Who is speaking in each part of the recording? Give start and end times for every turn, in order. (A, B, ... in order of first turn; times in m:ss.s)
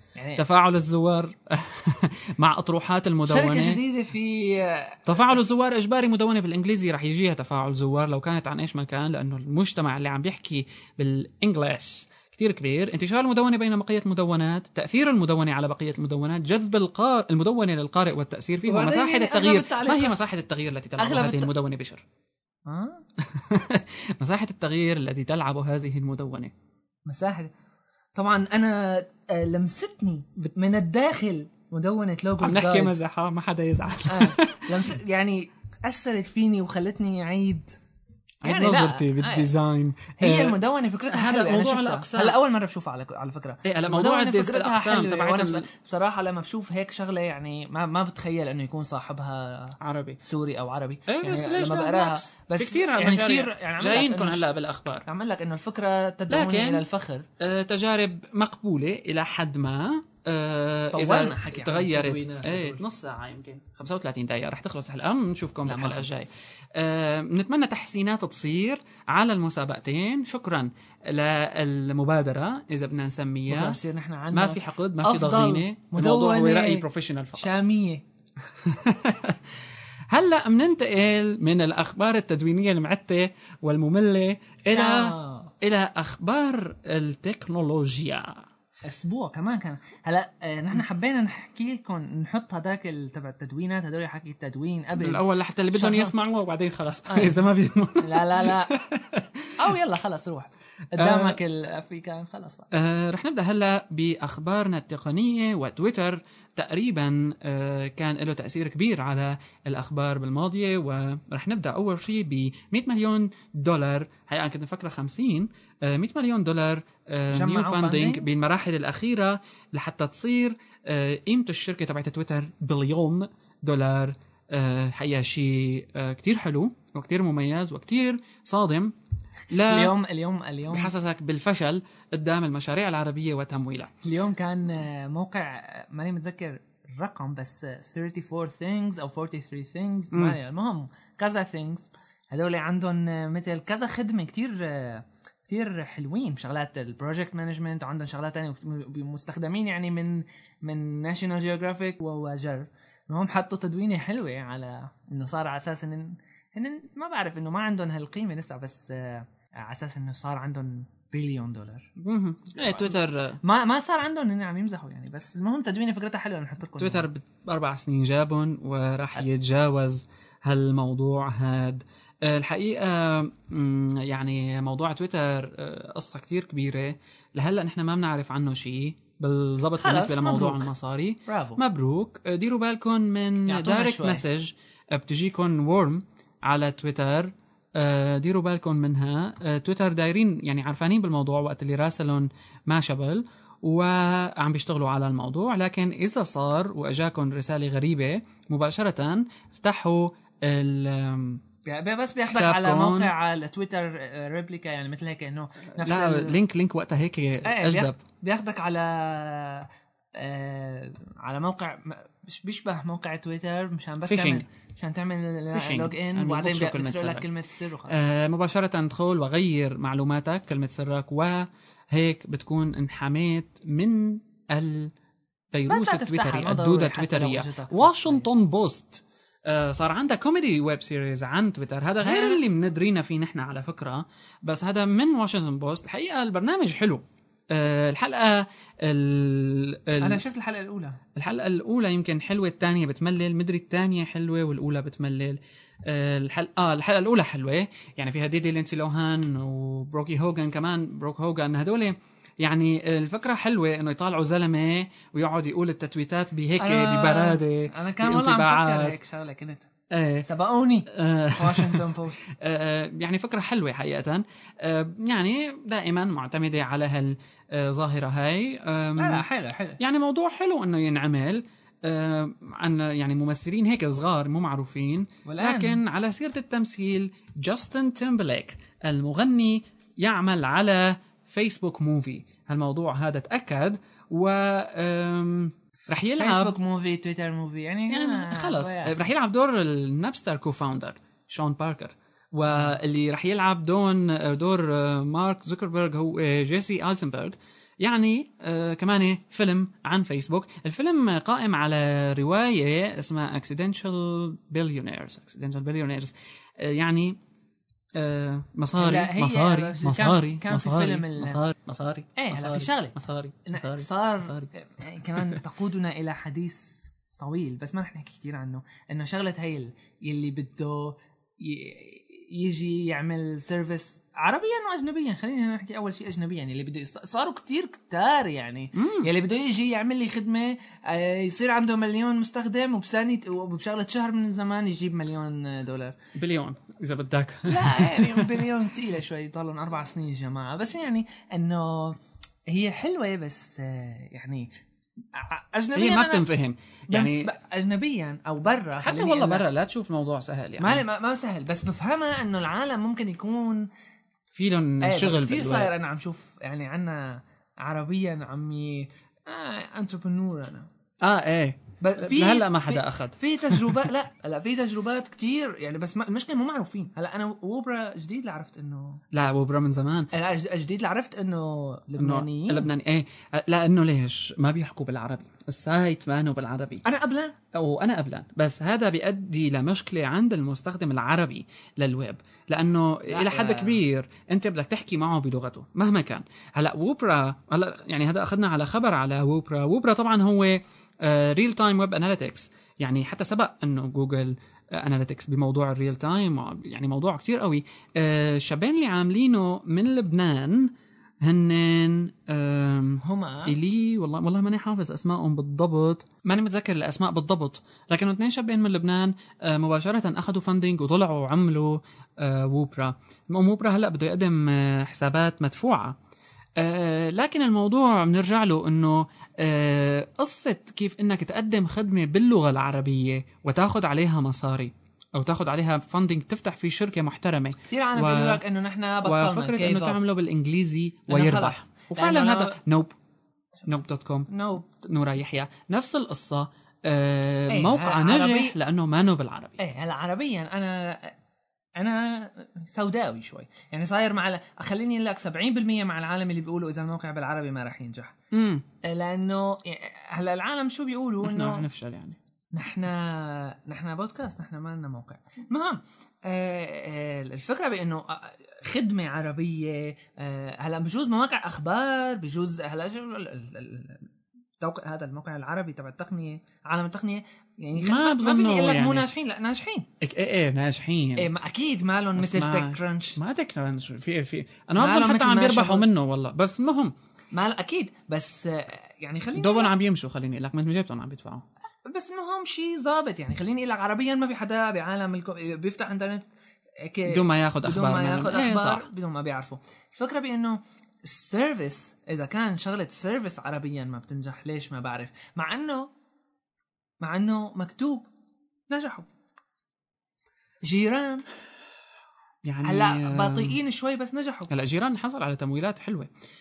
0:00.2-0:00.4 A
0:00.4-0:03.8 B
0:03.3-0:05.0 A
0:05.1-0:22.0 B
0:18.6-0:20.1 A
0:21.0-0:21.5 A
0:22.7-0:23.0 A
0:23.2-0:26.5 B
0:27.0-0:27.5 A
0:28.1-0:32.9 A
0:32.4-0:34.7 B
0:34.1-0:37.8 A
0:38.4-0:42.4 B
0:38.4-0:39.4 A
0:40.2-0:54.4 A
0:43.6-0:45.7 B
0:49.8-0:50.2 B
0:51.1-0:55.0 B
0:55.0-0:57.3 A
0:56.3-0:56.8 B
0:57.4-1:13.8 B
1:00.9-1:02.8 A
1:05.7-1:06.1 A
1:13.5-1:16.8 A
1:14.3-1:17.5 B
1:17.4-1:18.0 A
1:18.6-1:19.6 B
1:20.1-1:28.4 B
1:24.7-1:25.5 A
1:28.8-1:35.2 A
1:35.0-1:39.5 B
1:35.7-1:36.1 A
1:37.1-1:37.4 A
1:38.0-1:38.7 A
1:39.6-1:42.7 A
1:41.0-1:41.4 B
1:42.7-2:08.9 B
1:57.3-1:58.2 A
2:09.5-2:09.9 B
2:09.7-2:10.9 A
2:10.7-2:13.9 B
2:14.0-2:41.9 A
2:42.0-2:43.4 B
2:42.6-2:47.0 A
2:46.8-3:21.4 B
2:59.8-3:00.7 A
3:01.3-3:01.6 A
3:03.5-3:04.2 A
3:21.6-3:26.3 A
3:22.3-3:23.1 B
3:25.8-3:28.0 B
3:27.4-3:38.0 A
3:34.1-3:34.4 B
3:35.5-3:37.2 B
3:37.9-3:44.9 B
3:45.5-4:00.2 B
3:45.7-3:48.2 A
3:52.0-3:52.4 A
4:00.0-4:01.0 A
4:01.2-4:19.0 B
4:16.6-4:19.7 A
4:19.9-4:20.2 B
4:20.2-4:22.3 A
4:20.9-4:29.2 B
4:29.0-4:29.8 A
4:29.8-4:46.6 B
4:35.2-4:35.8 A
4:46.2-4:49.0 A
4:47.9-5:07.2 B
5:08.0-5:14.5 B
5:08.8-5:11.4 A
5:12.2-5:12.9 A
5:13.5-5:35.9 A
5:28.7-5:29.1 B
5:36.1-5:38.4 B
5:37.5-5:44.5 A
5:45.1-5:46.2 A
5:45.7-5:47.3 B
5:46.9-5:49.4 A
5:48.8-5:50.8 B
5:50.6-5:53.7 A
5:54.3-5:55.7 B
5:54.8-6:00.7 A
6:01.0-6:03.8 B
6:01.8-6:09.0 A
6:09.1-6:10.1 B
6:10.1-6:12.7 A
6:12.0-6:16.8 B
6:16.8-6:17.3 A
6:17.5-6:40.7 B
6:23.1-6:23.8 A
6:41.2-6:56.0 B
6:43.0-6:43.5 A
6:56.6-7:08.4 B
7:07.7-7:10.0 A
7:09.0-7:12.9 B
7:11.1-7:12.5 A
7:13.6-7:19.6 B
7:14.3-7:14.6 A
7:17.5-7:18.5 A
7:19.6-7:21.1 A
7:21.8-7:28.1 A
7:28.3-7:28.6 B
7:28.8-7:31.6 A
7:31.2-7:32.2 B
7:32.5-7:44.1 A
7:44.6-7:49.9 A
7:47.8-7:49.1 B
7:50.0-7:51.3 B
7:51.2-7:53.2 A
7:52.2-7:56.9 B
7:54.8-7:55.8 A
7:57.3-7:59.7 A
7:59.4-8:01.4 B
8:01.8-8:06.3 A
8:06.8-8:15.9 A
8:07.1-8:08.8 B
8:17.0-8:18.1 A
8:18.7-8:19.1 A
8:20.6-8:21.2 A
8:22.4-8:23.6 B
8:22.6-8:24.5 A
8:24.5-8:26.1 B